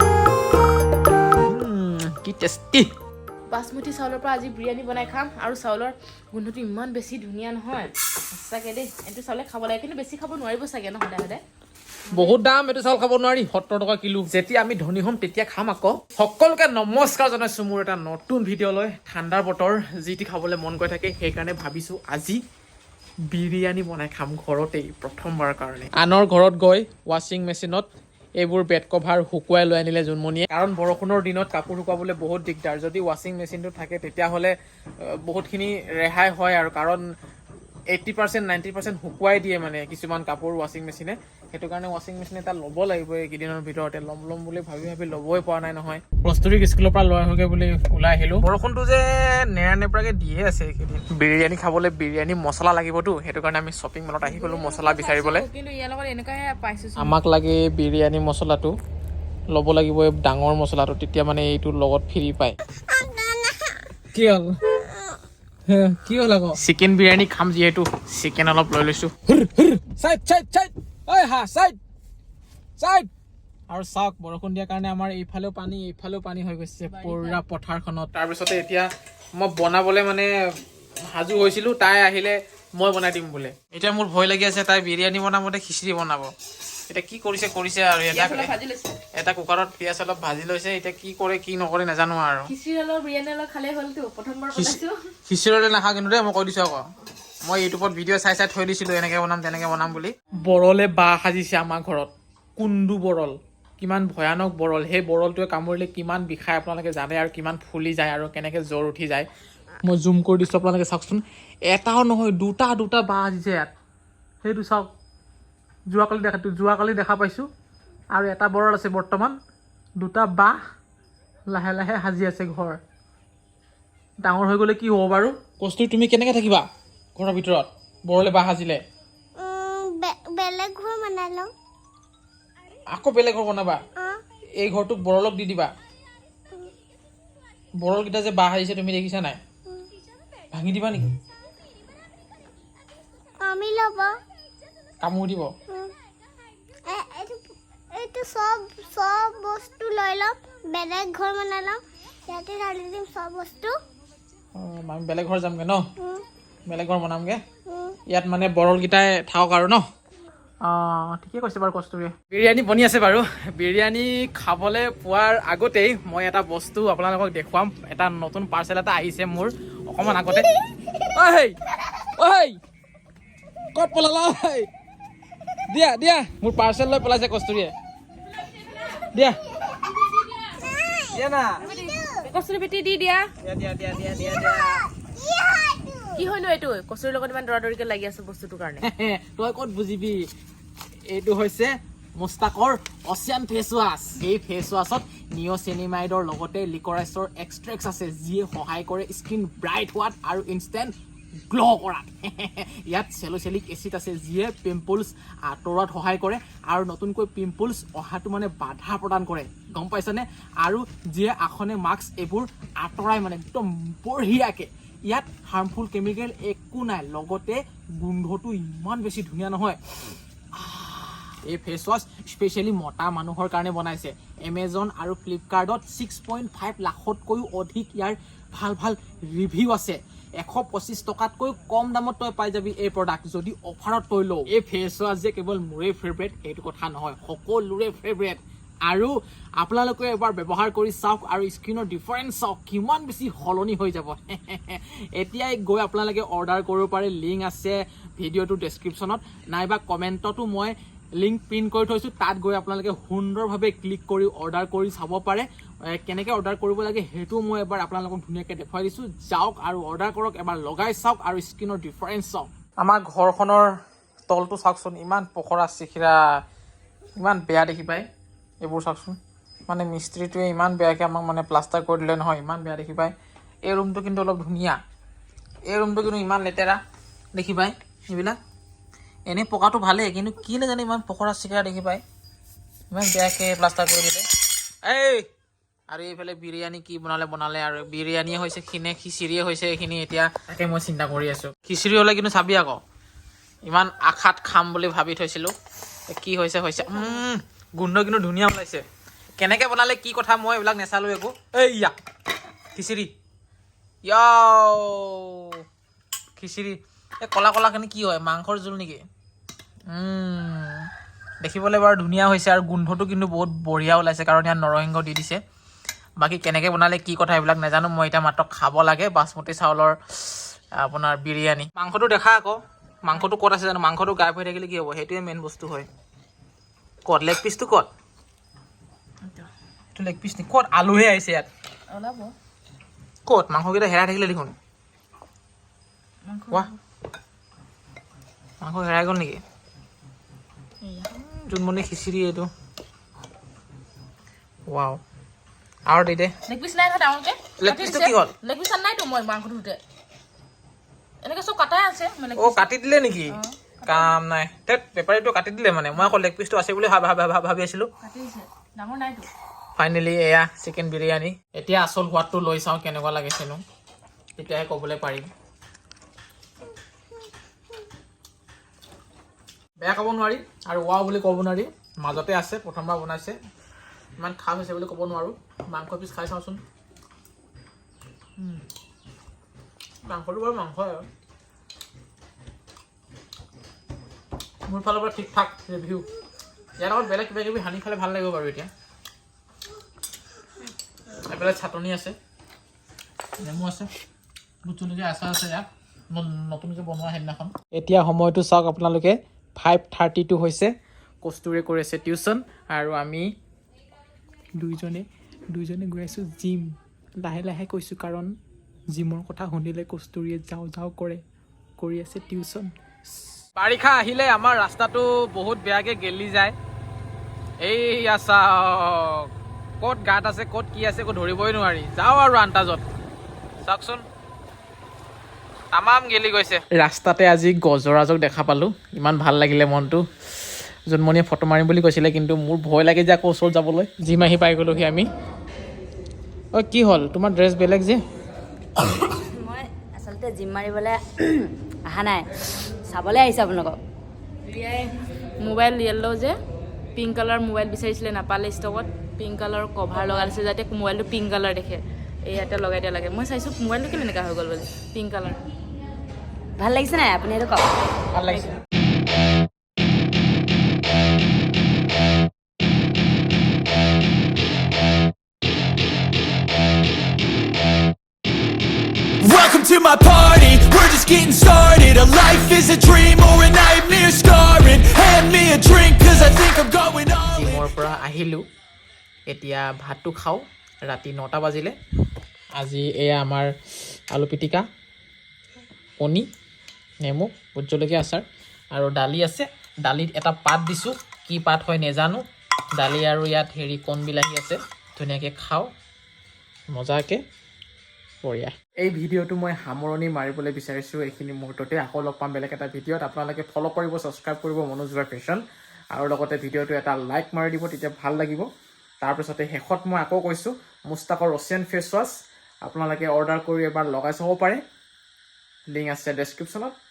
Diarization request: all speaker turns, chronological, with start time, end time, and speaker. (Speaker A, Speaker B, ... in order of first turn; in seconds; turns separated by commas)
Speaker A: 1.3-2.9, Speaker B: 3.5-11.4, Speaker A: 12.1-22.4, Speaker A: 23.3-37.0, Speaker A: 37.9-55.5, Speaker B: 54.2-57.1, Speaker A: 57.0-58.7, Speaker A: 59.5-62.5, Speaker C: 62.9-63.7, Speaker A: 64.1-64.5, Speaker A: 65.7-71.8, Speaker A: 72.8-73.1, Speaker A: 73.7-78.8, Speaker B: 76.8-77.4, Speaker A: 79.4-80.3, Speaker A: 81.1-86.3, Speaker A: 86.9-88.5, Speaker B: 88.1-89.0, Speaker A: 89.1-92.5, Speaker B: 92.4-95.0, Speaker A: 94.5-96.9, Speaker A: 97.4-109.2, Speaker A: 109.8-113.7, Speaker A: 114.4-114.9, Speaker A: 115.9-117.5, Speaker A: 118.1-119.3, Speaker A: 120.0-120.6, Speaker A: 121.5-122.8, Speaker A: 124.2-128.8, Speaker C: 129.4-131.5, Speaker A: 132.9-133.8, Speaker A: 134.6-135.7, Speaker A: 137.8-139.4, Speaker A: 140.5-141.2, Speaker C: 143.4-144.2, Speaker A: 145.0-145.5, Speaker C: 146.9-153.8, Speaker A: 154.6-155.8, Speaker A: 156.7-157.4, Speaker A: 158.1-159.8, Speaker A: 160.6-170.5, Speaker A: 171.1-171.5, Speaker A: 172.2-172.6, Speaker A: 173.7-174.7, Speaker A: 175.7-177.7, Speaker A: 181.1-181.6, Speaker B: 181.6-183.3, Speaker A: 183.4-184.9, Speaker C: 185.2-186.1, Speaker B: 186.1-188.8, Speaker A: 188.8-190.3, Speaker A: 191.1-200.9, Speaker A: 201.5-219.8, Speaker A: 220.6-263.7, Speaker A: 264.3-266.2, Speaker A: 267.2-268.1, Speaker A: 268.6-269.2, Speaker A: 269.7-274.8, Speaker A: 275.7-276.8, Speaker A: 277.3-278.4, Speaker A: 279.3-282.0, Speaker A: 282.9-284.2, Speaker A: 284.8-285.3, Speaker A: 285.9-292.8, Speaker A: 293.6-295.5, Speaker A: 296.1-298.8, Speaker A: 299.4-301.9, Speaker A: 302.7-303.1, Speaker A: 304.0-305.6, Speaker A: 306.4-309.0, Speaker A: 309.9-310.9, Speaker A: 311.4-315.4, Speaker A: 316.2-325.9, Speaker A: 327.1-327.9, Speaker A: 329.9-331.5, Speaker B: 331.9-332.3, Speaker A: 333.2-334.5, Speaker B: 336.2-336.8, Speaker A: 338.6-339.4, Speaker B: 340.8-341.1, Speaker A: 341.3-342.5, Speaker A: 344.7-345.0, Speaker A: 345.9-346.3, Speaker B: 346.4-349.8, Speaker A: 347.6-348.3, Speaker B: 351.2-352.7, Speaker A: 352.4-357.9, Speaker B: 353.3-354.1, Speaker B: 358.0-359.3, Speaker A: 359.8-363.6, Speaker A: 364.4-365.3, Speaker A: 369.8-373.4, Speaker A: 374.2-376.6, Speaker A: 380.0-381.1, Speaker A: 384.7-386.1, Speaker A: 386.8-388.7, Speaker A: 391.2-392.1, Speaker A: 393.4-393.9, Speaker A: 394.6-403.2, Speaker A: 404.6-408.3, Speaker A: 408.9-411.2, Speaker A: 411.8-412.7, Speaker A: 413.4-416.5, Speaker A: 417.6-419.3, Speaker A: 419.8-422.8, Speaker A: 423.6-424.0, Speaker A: 425.7-430.1, Speaker A: 430.9-435.1, Speaker A: 436.5-438.0, Speaker D: 438.9-442.3, Speaker D: 442.8-443.8, Speaker B: 444.5-446.4, Speaker B: 446.9-455.4, Speaker D: 456.6-458.5, Speaker A: 458.1-458.6, Speaker E: 469.2-477.6, Speaker A: 477.2-478.4, Speaker A: 479.2-481.8, Speaker A: 482.6-483.5, Speaker A: 484.1-484.6, Speaker A: 486.0-486.3, Speaker A: 487.0-495.7, Speaker A: 496.7-497.2, Speaker A: 498.2-505.4, Speaker A: 505.9-508.4, Speaker A: 509.0-514.6, Speaker A: 515.7-516.7